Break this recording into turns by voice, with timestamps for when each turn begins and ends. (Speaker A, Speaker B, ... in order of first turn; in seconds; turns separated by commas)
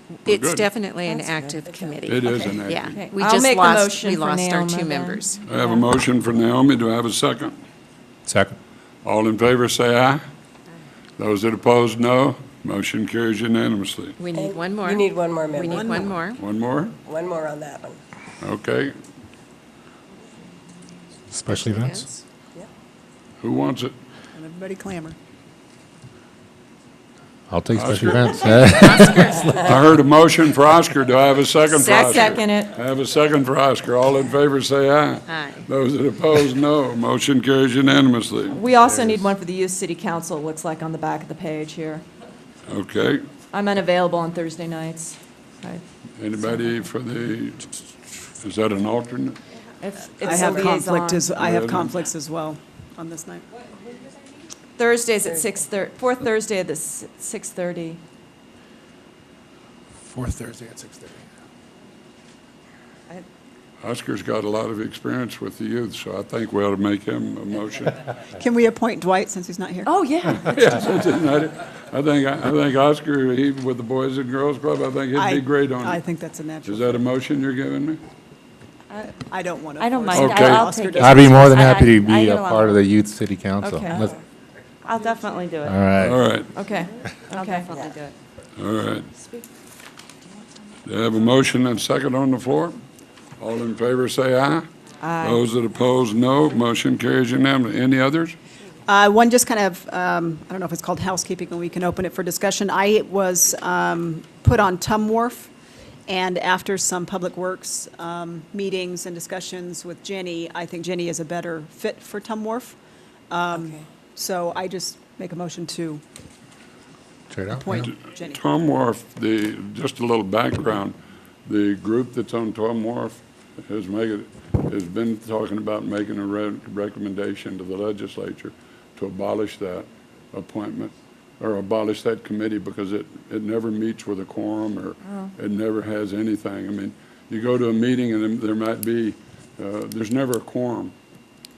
Speaker A: 0.3-0.7, Speaker B: 0.3-5.4, Speaker C: 1.1-1.6, Speaker D: 1.6-2.5, Speaker A: 2.0-3.0, Speaker C: 2.9-5.3, Speaker A: 5.4-7.6, Speaker E: 8.3-8.6, Speaker A: 9.0-10.2, Speaker A: 11.2-14.2, Speaker B: 14.2-16.4, Speaker D: 14.3-16.1, Speaker F: 15.7-16.1, Speaker A: 16.4-16.9, Speaker D: 17.0-18.0, Speaker A: 18.4-18.9, Speaker E: 21.3-22.1, Speaker B: 21.5-22.1, Speaker A: 23.4-23.9, Speaker F: 24.3-25.2, Speaker E: 27.5-29.5, Speaker A: 27.8-39.3, Speaker B: 29.0-29.5, Speaker B: 31.7-32.4, Speaker C: 32.0-32.8, Speaker B: 35.3-35.6, Speaker C: 38.5-42.0, Speaker A: 42.7-43.3, Speaker C: 43.5-45.8, Speaker A: 46.2-47.7, Speaker A: 48.4-49.4, Speaker C: 49.8-51.3, Speaker F: 50.2-53.5, Speaker D: 50.3-50.8, Speaker A: 51.4-51.9, Speaker C: 54.8-58.0, Speaker D: 55.2-55.6, Speaker E: 60.1-61.2, Speaker A: 63.8-68.0, Speaker F: 68.3-69.9, Speaker C: 69.8-70.6, Speaker A: 70.5-76.0, Speaker F: 75.2-77.0, Speaker A: 76.7-78.0, Speaker F: 79.0-81.4, Speaker G: 79.8-82.7, Speaker A: 80.1-80.7, Speaker E: 81.0-84.2, Speaker C: 83.6-84.0, Speaker G: 84.8-85.8, Speaker E: 85.6-86.3, Speaker A: 86.0-86.5, Speaker C: 86.5-87.7, Speaker G: 87.3-88.2, Speaker A: 88.6-89.1, Speaker A: 90.9-92.8, Speaker A: 93.4-94.7, Speaker G: 95.0-95.4, Speaker A: 95.2-98.4, Speaker F: 98.9-105.5, Speaker F: 106.1-112.8, Speaker F: 113.3-116.0, Speaker E: 117.3-117.9, Speaker F: 117.5-118.4, Speaker A: 118.1-121.0, Speaker A: 121.5-140.9